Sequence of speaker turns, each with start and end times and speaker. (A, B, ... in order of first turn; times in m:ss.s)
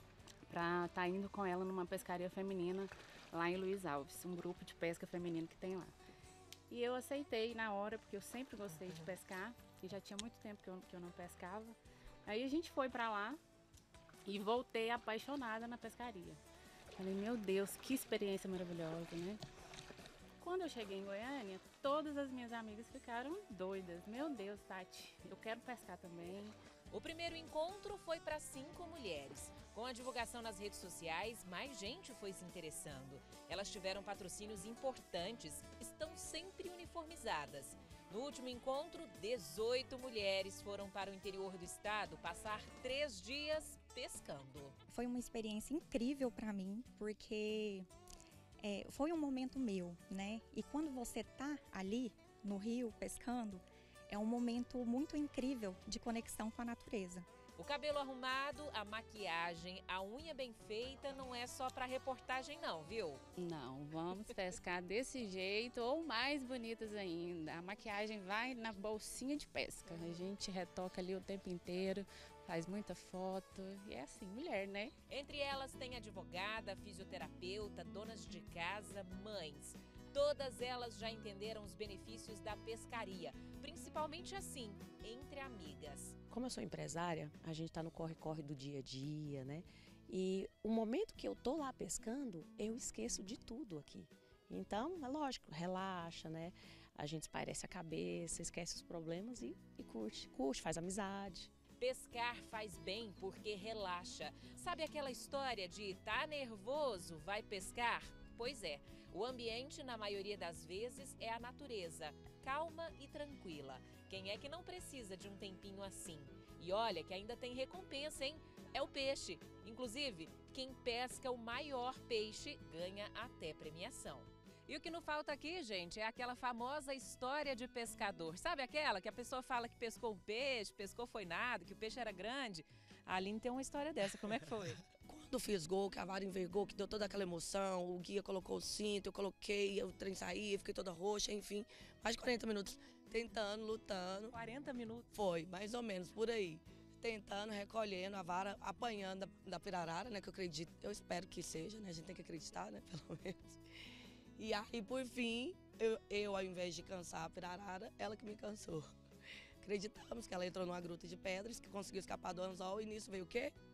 0:00.5-0:05.9 A
0:06.7-0:13.4 A
0:14.3-0:16.4 A
0:17.0-0:19.4 A
0:20.4-0:26.6 A
0:26.9-0:44.8 B
0:44.9-0:47.9 C
0:48.6-0:57.3 C
0:57.6-1:03.2 B
1:03.4-1:15.0 A
1:15.1-1:26.2 B
1:26.3-1:41.5 D
1:41.8-2:14.8 B
2:15.1-2:24.3 E
2:24.3-2:25.1 B
2:25.1-2:33.6 E
2:34.4-2:38.9 E
2:39.6-2:43.5 E